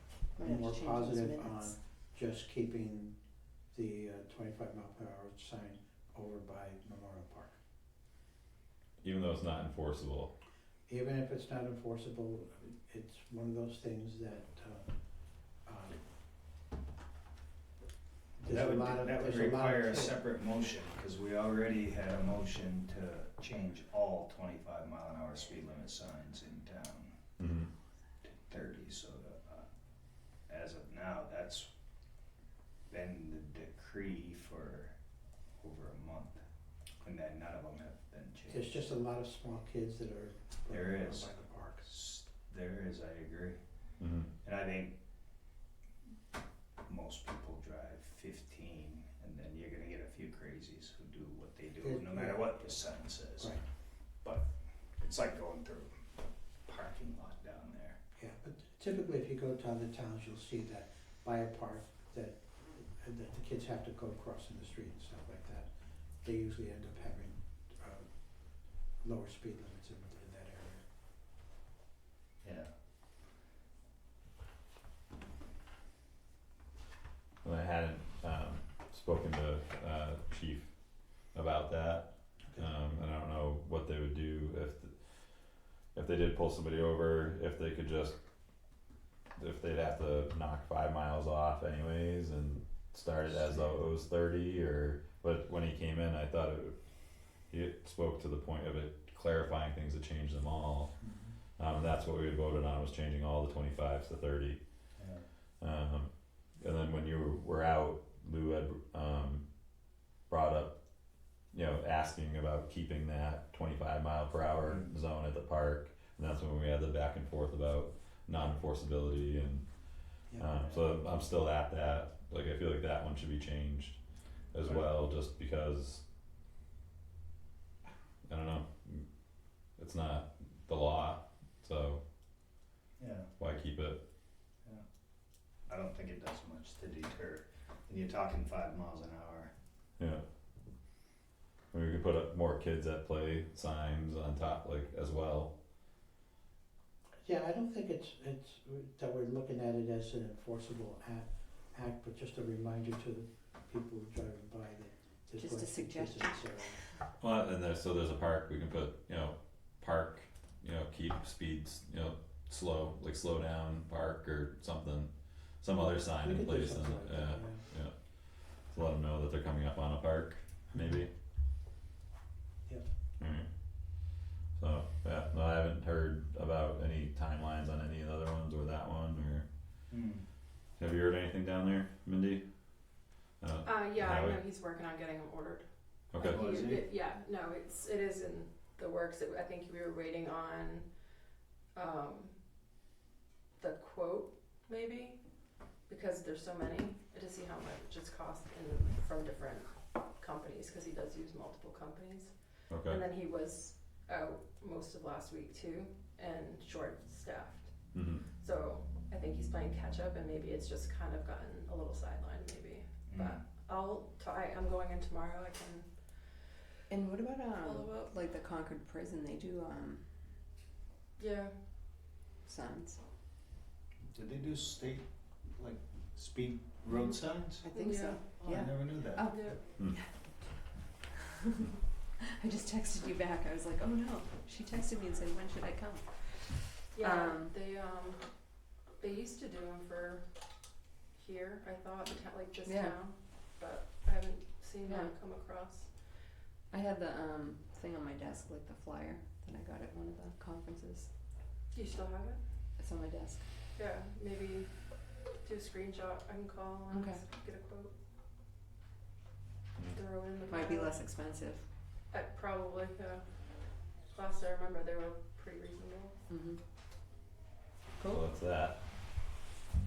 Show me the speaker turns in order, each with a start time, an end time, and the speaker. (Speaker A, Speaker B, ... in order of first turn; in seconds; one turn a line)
Speaker A: 0.3-1.8
Speaker B: 0.4-3.2
Speaker B: 3.7-7.6
Speaker C: 9.0-10.3
Speaker B: 10.9-14.9
Speaker B: 15.7-16.0
Speaker B: 18.4-20.2
Speaker D: 18.4-27.1
Speaker C: 27.4-27.7
Speaker D: 28.2-29.7
Speaker D: 30.5-31.7
Speaker D: 32.9-34.9
Speaker D: 35.6-36.4
Speaker D: 37.0-38.8
Speaker B: 38.5-41.9
Speaker D: 40.7-43.6
Speaker C: 44.0-44.3
Speaker D: 44.4-45.0
Speaker D: 46.9-53.6
Speaker B: 51.8-52.8
Speaker B: 53.4-53.6
Speaker D: 54.2-58.0
Speaker B: 58.2-65.7
Speaker B: 66.2-70.8
Speaker D: 72.4-72.7
Speaker C: 77.4-80.7
Speaker C: 81.3-84.9
Speaker C: 86.0-88.2
Speaker C: 89.4-96.8
Speaker C: 97.5-100.9
Speaker C: 101.6-104.6
Speaker D: 105.0-105.3
Speaker C: 105.6-109.4
Speaker C: 110.3-110.8
Speaker C: 111.5-119.7
Speaker D: 114.6-114.9
Speaker C: 120.3-124.0
Speaker C: 124.5-126.0
Speaker D: 124.6-124.9
Speaker C: 128.3-129.1
Speaker C: 129.8-132.0
Speaker D: 133.0-133.3
Speaker C: 133.4-134.0
Speaker D: 135.7-139.5
Speaker C: 140.0-140.2
Speaker C: 141.7-145.5
Speaker B: 147.2-156.8
Speaker A: 155.3-157.0
Speaker C: 157.2-171.1
Speaker B: 166.0-167.7
Speaker C: 173.2-173.5
Speaker C: 174.6-179.4
Speaker D: 179.9-180.2
Speaker C: 180.8-182.4
Speaker C: 183.4-184.4
Speaker E: 183.6-190.9
Speaker C: 186.1-186.5
Speaker D: 186.2-186.9
Speaker E: 191.8-192.4
Speaker E: 193.6-195.2
Speaker E: 195.9-207.7
Speaker C: 202.7-203.0
Speaker C: 207.9-208.3
Speaker E: 208.4-215.9
Speaker D: 213.1-213.4
Speaker A: 216.9-220.1
Speaker E: 217.6-218.1
Speaker E: 221.2-221.5
Speaker A: 222.4-223.0
Speaker D: 224.1-225.0
Speaker D: 225.6-227.7
Speaker A: 227.6-230.1
Speaker E: 227.7-228.7
Speaker D: 228.5-229.3
Speaker E: 229.2-229.6
Speaker A: 232.3-237.6
Speaker E: 236.9-238.3
Speaker E: 239.0-240.3
Speaker E: 241.2-245.9
Speaker A: 242.7-243.0
Speaker A: 244.9-245.1
Speaker A: 246.7-251.1
Speaker E: 251.7-252.4
Speaker A: 252.8-253.4
Speaker E: 253.8-254.7
Speaker E: 255.4-257.9
Speaker A: 256.9-257.2
Speaker E: 259.9-261.0
Speaker A: 260.5-261.6
Speaker E: 262.1-263.2
Speaker E: 264.1-266.2
Speaker A: 266.3-266.6
Speaker A: 268.0-268.2
Speaker C: 268.1-268.8